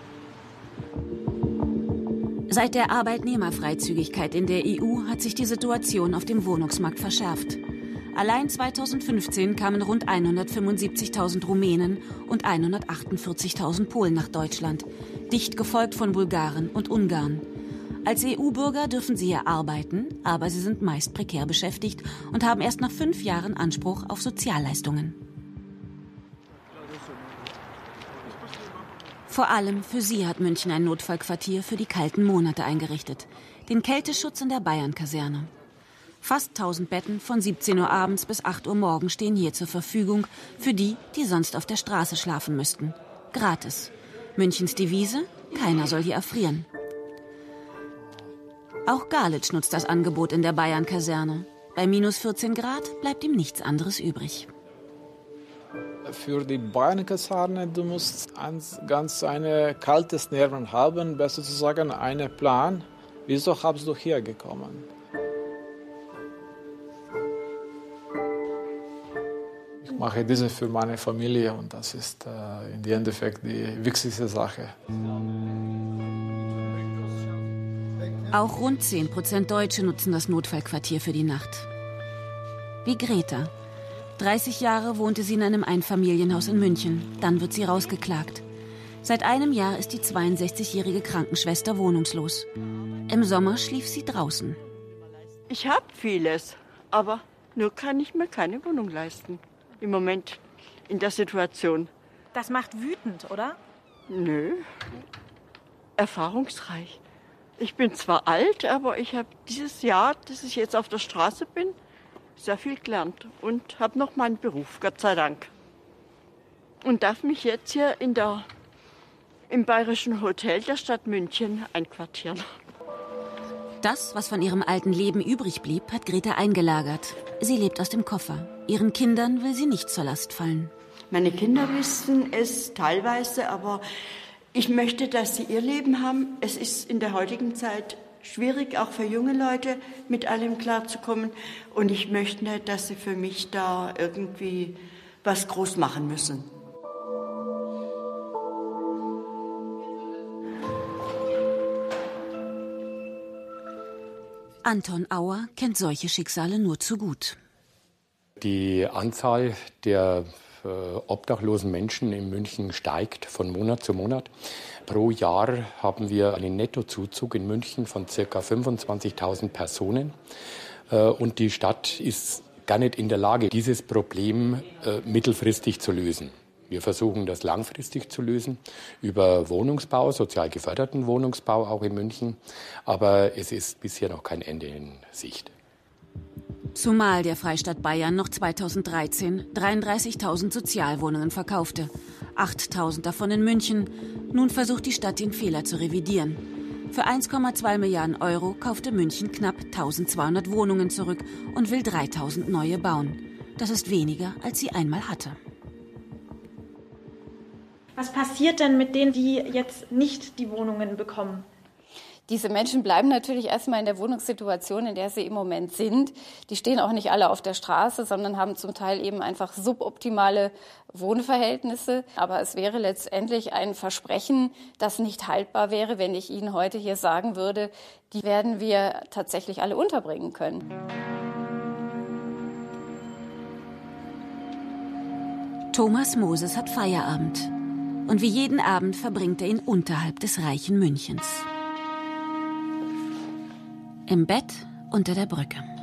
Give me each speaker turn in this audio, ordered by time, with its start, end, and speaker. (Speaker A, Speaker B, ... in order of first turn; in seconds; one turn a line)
Speaker A: 2.5-7.6
Speaker A: 8.1-17.4
Speaker A: 18.1-25.2
Speaker A: 29.3-35.5
Speaker A: 36.2-46.7
Speaker A: 48.9-54.5
Speaker B: 56.1-64.8
Speaker B: 69.9-74.7
Speaker A: 78.3-81.7
Speaker A: 82.8-83.5
Speaker A: 84.2-88.4
Speaker A: 89.0-92.5
Speaker A: 93.1-94.6
Speaker C: 95.5-101.9
Speaker D: 102.3-103.6
Speaker C: 104.1-104.6
Speaker C: 106.0-107.0
Speaker C: 107.6-111.8
Speaker C: 112.4-115.5
Speaker C: 116.8-118.5
Speaker C: 119.5-122.4
Speaker A: 123.8-130.7
Speaker C: 131.1-133.8
Speaker C: 134.5-146.5
Speaker A: 154.6-157.4
Speaker E: 158.4-164.3
Speaker E: 164.9-170.2
Speaker E: 170.9-185.5
Speaker A: 186.8-205.4
Speaker D: 208.0-211.4
Speaker F: 212.3-230.6
Speaker A: 235.7-237.5
Speaker A: 238.1-241.5
Speaker A: 244.1-245.7